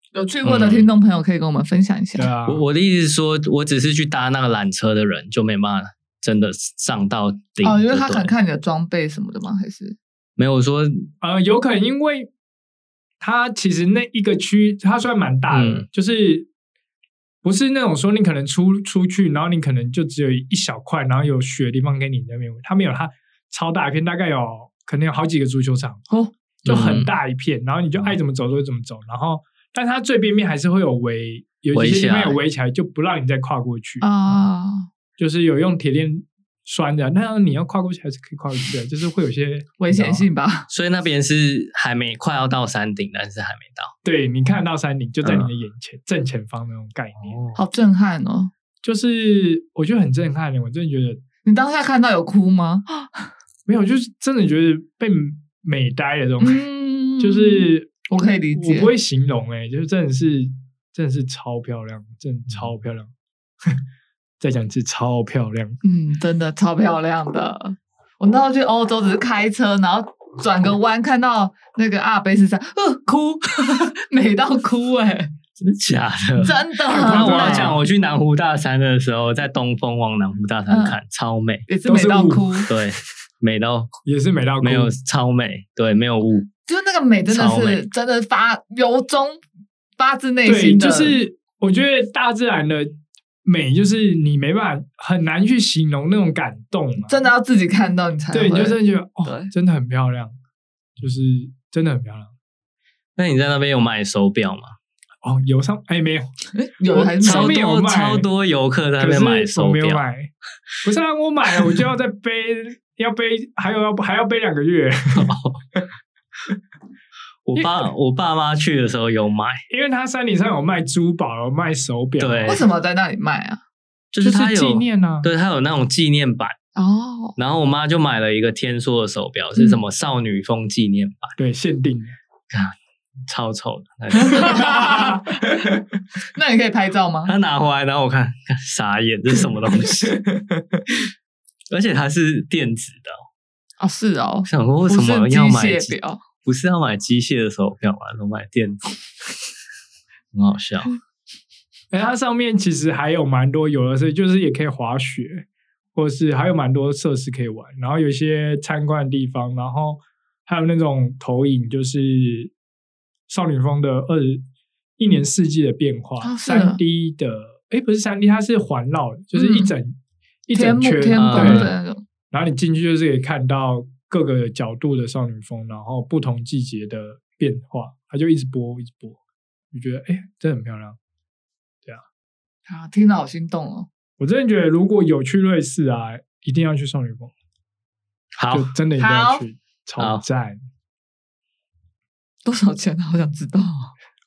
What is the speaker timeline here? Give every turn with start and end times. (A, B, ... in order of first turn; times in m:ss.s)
0:00.1-0:02.3 A
0:00.4-0:00.9 B
0:02.2-0:02.6 C
0:02.5-0:08.3 B
0:07.6-0:10.0 A
0:10.4-0:11.1 B
0:11.2-0:12.3 C
0:13.2-0:16.5 C
0:15.5-0:15.9 B
0:17.4-0:26.0 C
0:26.6-0:34.4 C
0:26.6-0:27.1 B
0:31.7-0:32.4 B
0:34.0-0:34.9 A
0:35.2-0:40.3 C
0:39.8-0:40.7 A
0:40.7-0:43.9 B
0:44.0-0:47.4 C
0:45.2-0:45.5 B
0:47.2-0:47.6 B
0:47.6-0:48.5 A
0:48.8-0:51.2 C
0:51.4-0:53.3 A
0:53.6-0:56.6 C
0:56.4-0:58.9 A
0:57.2-1:03.1 C
1:04.4-1:05.8 C
1:05.8-1:15.3 A
1:15.6-1:21.7 B
1:16.4-1:17.8 A
1:16.9-1:17.8 C
1:20.7-1:21.0 A
1:21.7-1:22.7 A
1:21.9-1:22.7 C
1:22.7-1:23.9 B
1:24.0-1:24.9 C
1:24.6-1:26.5 B
1:26.7-1:29.4 A
1:27.3-1:27.8 B
1:30.0-1:31.2 A
1:30.4-1:37.2 C
1:37.0-1:39.5 A
1:38.3-1:40.3 C
1:41.0-1:42.3 C
1:43.2-1:44.7 B
1:45.2-1:46.3 C
1:46.5-1:47.6 A
1:46.9-1:48.3 C
1:47.2-1:50.0 B
1:49.0-1:50.3 C
1:50.8-1:55.8 C
1:55.1-1:55.6 B
1:57.5-1:59.6 B
1:57.6-1:57.9 C
1:59.7-2:02.6 C
2:02.2-2:02.6 B
2:02.4-2:03.6 A
2:04.1-2:06.6 B
2:04.2-2:05.3 C
2:06.8-2:07.4 A
2:07.4-2:11.3 B
2:09.6-2:09.8 A
2:11.4-2:12.2 C
2:13.3-2:15.0 B
2:14.1-2:15.7 A
2:14.4-2:15.8 C
2:16.3-2:17.3 A
2:17.2-2:20.2 B
2:20.0-2:20.8 C
2:21.7-2:23.2 B
2:23.8-2:26.2 A
2:24.4-2:29.0 B
2:30.3-2:31.0 B
2:31.9-2:42.5 C
2:43.3-2:44.4 C
2:45.0-2:51.7 C
2:46.2-2:46.8 A
2:49.4-2:49.7 A
2:50.5-2:52.0 A
2:51.2-2:51.7 B
2:52.3-2:59.2 C
2:59.7-3:01.0 C
3:02.7-3:03.9 A
3:04.2-3:07.3 C
3:08.4-3:08.7 B
3:08.5-3:10.6 C
3:09.0-3:09.4 A
3:12.4-3:13.9 A